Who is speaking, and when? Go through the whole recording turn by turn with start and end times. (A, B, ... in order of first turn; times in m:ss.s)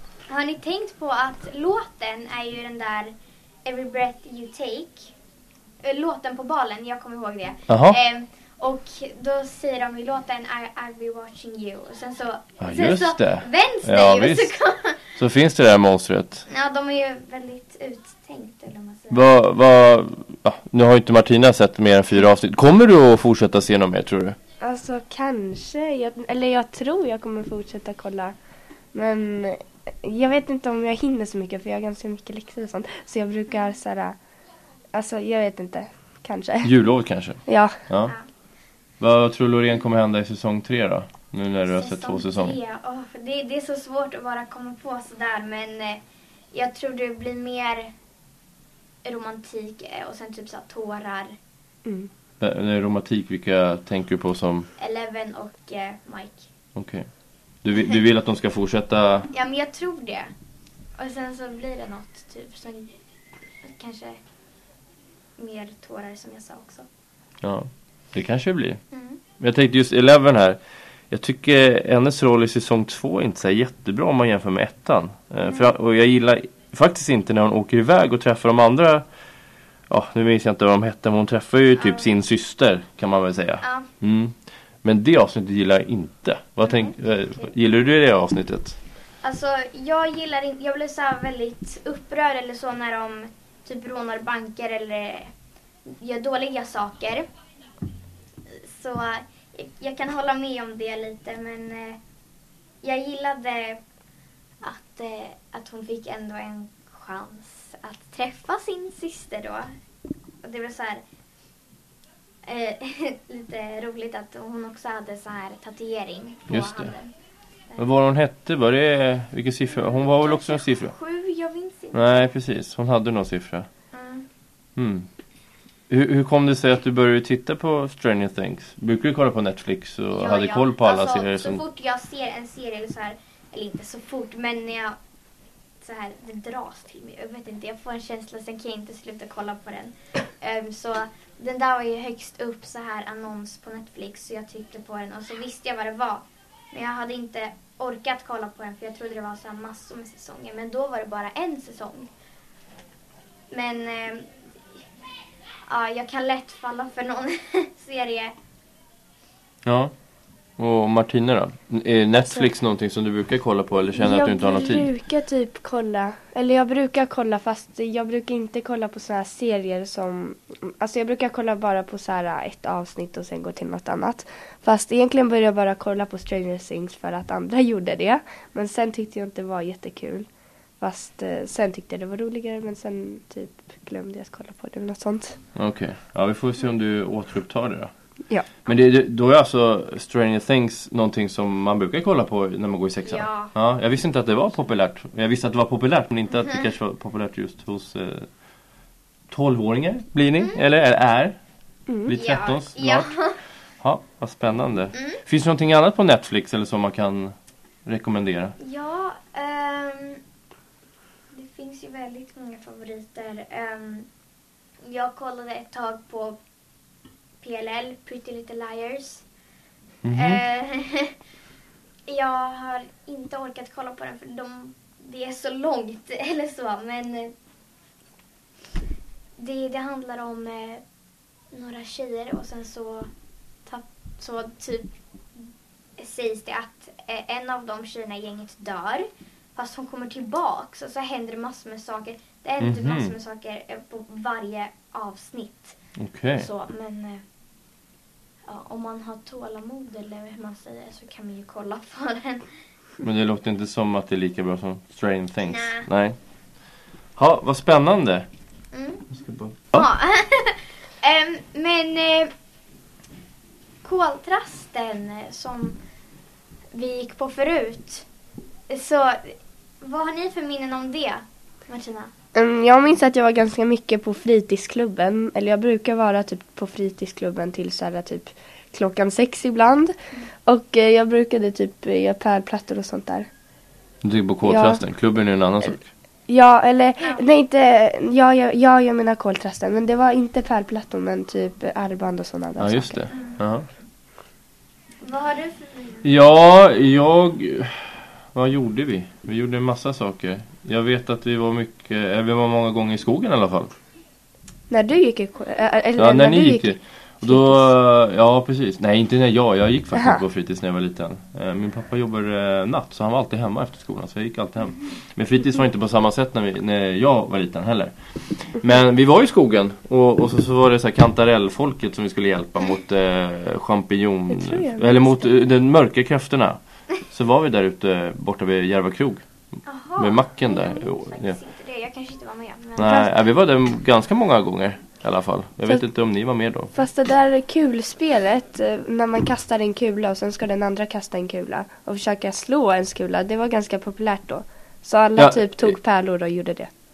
0:00.3-0:03.1 A
0:03.6-0:05.1 A
0:05.8-0:15.0 A
0:07.7-0:08.0 B
0:12.6-0:14.5 B
0:15.2-0:16.4 B
0:16.5-0:19.3 A
0:19.1-0:24.4 B
0:24.6-0:28.3 C
0:28.9-0:34.2 C
0:34.9-0:36.7 C
0:36.6-0:38.1 B
0:37.4-0:37.8 C
0:38.0-0:38.3 A
0:39.0-0:42.6 B
0:41.7-0:47.9 A
0:49.0-0:51.4 A
0:52.4-0:54.7 B
0:54.8-0:56.5 A
0:56.7-0:57.0 B
0:57.6-0:59.3 B
0:59.3-1:00.3 A
1:01.0-1:02.9 A
1:03.6-1:04.2 A
1:05.4-1:06.9 A
1:07.4-1:08.8 B
1:08.9-1:09.2 A
1:09.4-1:10.6 B
1:11.1-1:19.0 B
1:15.4-1:15.7 A
1:19.9-1:24.3 B
1:21.8-1:22.1 A
1:23.6-1:23.9 A
1:24.8-1:28.8 B
1:26.6-1:27.0 A
1:29.2-1:35.3 A
1:35.8-1:37.3 A
1:38.5-1:42.0 A
1:42.8-1:43.8 A
1:44.6-1:49.7 A
1:50.4-1:51.0 A
1:52.4-1:57.1 A
1:56.5-1:56.9 B
1:57.8-2:00.9 B
1:59.7-2:02.3 A
2:01.9-2:03.7 B
2:03.9-2:04.2 A
2:04.8-2:05.1 B
2:05.9-2:11.6 B
2:10.1-2:15.0 A
2:15.8-2:32.1 A
2:33.5-2:34.3 A
2:35.6-2:38.3 A
2:39.6-2:39.9 B
2:40.6-2:44.9 B
2:43.9-3:00.3 C
3:00.8-3:05.4 C
3:05.5-3:07.9 B
3:08.6-3:18.3 B
3:13.0-3:13.5 A
3:19.3-3:21.4 B
3:21.9-3:22.1 C
3:22.0-3:23.1 B
3:22.1-3:23.4 A
3:23.8-3:27.3 B
3:24.9-3:25.2 A
3:27.8-3:28.5 B
3:28.6-3:30.2 A
3:31.3-3:34.1 A
3:34.8-3:36.4 A
3:37.4-3:39.2 A
3:40.0-3:40.4 B
3:40.1-3:41.1 A
3:42.1-3:47.3 A
3:49.4-3:50.8 A
3:51.5-3:53.1 A
3:53.6-3:54.9 A
3:56.0-4:05.8 A
4:02.6-4:03.1 B
4:06.0-4:06.5 B
4:06.3-4:07.2 A
4:08.5-4:12.4 A
4:13.0-4:16.2 B
4:15.4-4:15.9 A
4:17.2-4:18.3 B
4:18.7-4:19.1 A
4:19.1-4:19.9 B
4:19.7-4:22.3 A
4:23.8-4:25.8 A
4:26.7-4:28.1 A
4:28.7-4:32.1 A
4:32.3-4:39.9 C
4:40.4-4:43.3 C
4:44.0-4:45.9 B
4:44.4-4:44.8 C
4:46.3-4:53.0 C
4:52.6-4:53.6 B
4:53.1-4:53.4 A
4:55.0-4:56.1 A
4:56.0-5:03.7 B
5:04.7-5:07.7 C
5:06.0-5:29.2 B
5:09.9-5:10.2 C
5:24.3-5:25.3 C
5:29.6-5:33.0 A
5:30.0-5:31.4 B
5:32.8-5:36.7 B
5:32.8-5:33.1 C
5:36.7-5:46.7 C
5:45.2-5:45.7 B